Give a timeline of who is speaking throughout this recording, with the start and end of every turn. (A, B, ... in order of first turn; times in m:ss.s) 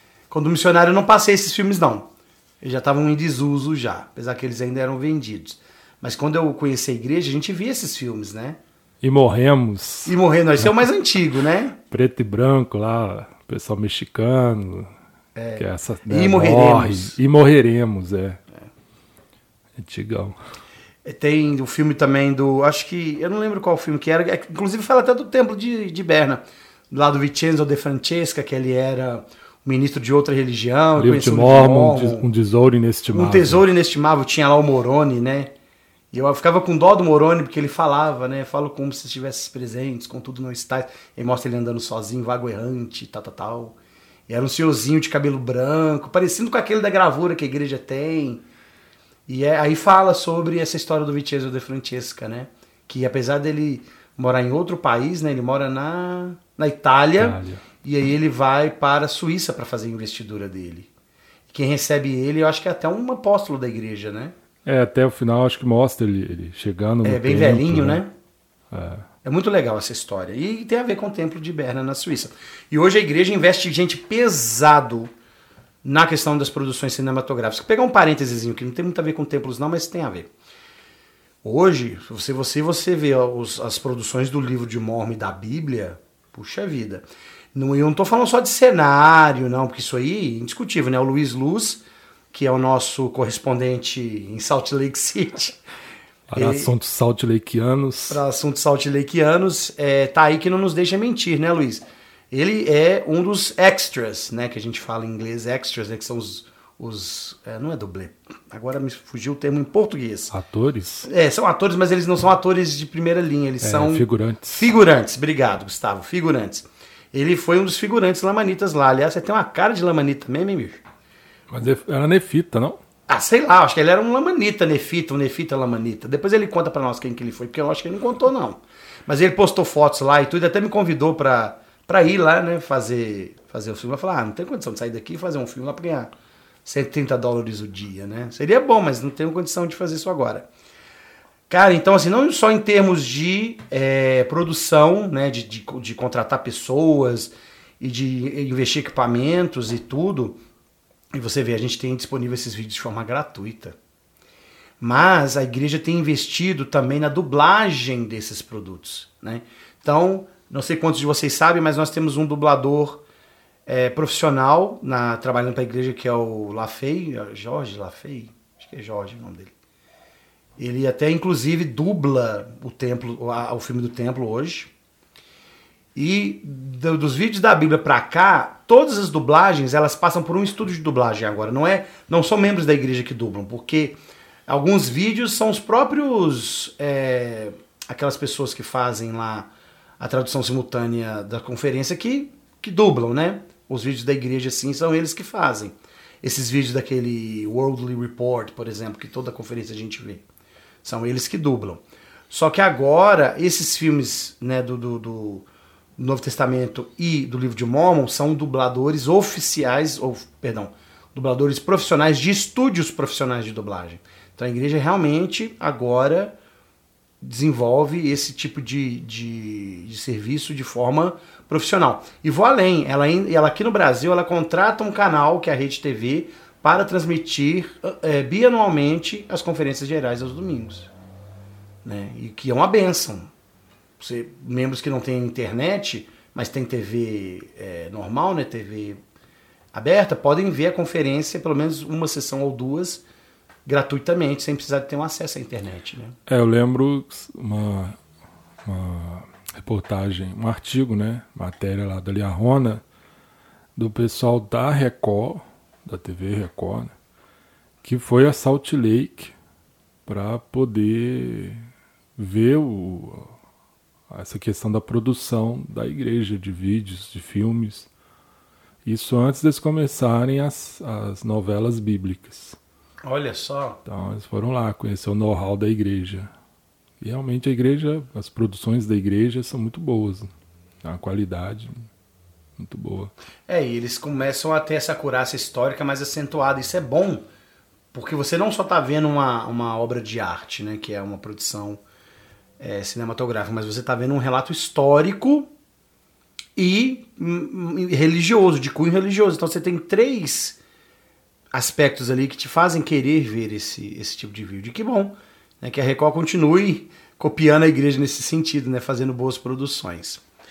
0:00.3-0:08.6 A
0:09.0-0:10.8 B
0:10.0-0:11.8 A
0:11.9-0:14.9 B
0:15.3-0:17.2 A
0:15.6-0:18.4 B
0:19.8-0:20.4 B
0:21.0-0:32.2 A
0:31.0-0:33.6 B
0:33.1-0:35.5 A
0:36.1-0:43.8 A
0:44.3-0:48.4 A
0:49.3-1:00.9 A
0:57.2-0:57.6 B
1:01.5-1:04.3 A
1:04.6-1:08.0 B
1:07.0-1:08.1 A
1:08.7-1:09.1 B
1:09.2-1:15.1 A
1:15.8-1:20.3 A
1:21.4-1:35.6 A
1:36.3-1:38.2 B
1:36.4-1:36.7 A
1:38.1-1:50.3 A
1:50.3-1:51.1 B
1:51.0-2:00.8 A
1:53.6-1:54.7 B
2:01.5-2:02.8 B
2:03.1-2:16.1 A
2:16.6-2:20.5 A
2:21.5-2:30.4 A
2:31.1-2:33.8 A
2:34.8-2:43.0 A
2:43.7-2:49.5 A
2:50.6-2:54.7 A
2:55.9-3:20.2 A
3:20.8-3:25.4 A
3:26.0-3:36.4 A
3:37.2-3:50.9 A
3:51.8-3:53.3 A
3:54.0-3:59.0 A
3:59.7-4:03.0 A
4:03.6-4:06.2 A
4:06.3-4:08.0 B
4:08.6-4:12.8 B
4:13.8-4:16.9 B
4:17.8-4:19.3 B
4:20.0-4:21.6 B
4:22.2-4:23.3 B
4:24.1-4:27.9 B
4:28.8-4:32.6 B
4:33.0-4:33.8 A
4:33.8-4:36.3 B
4:37.0-4:40.3 B
4:40.8-4:41.7 B
4:42.6-4:43.1 B
4:43.5-4:47.2 A
4:47.9-4:51.8 A
4:52.6-4:55.5 A
4:56.6-5:00.6 A
5:01.5-5:10.2 A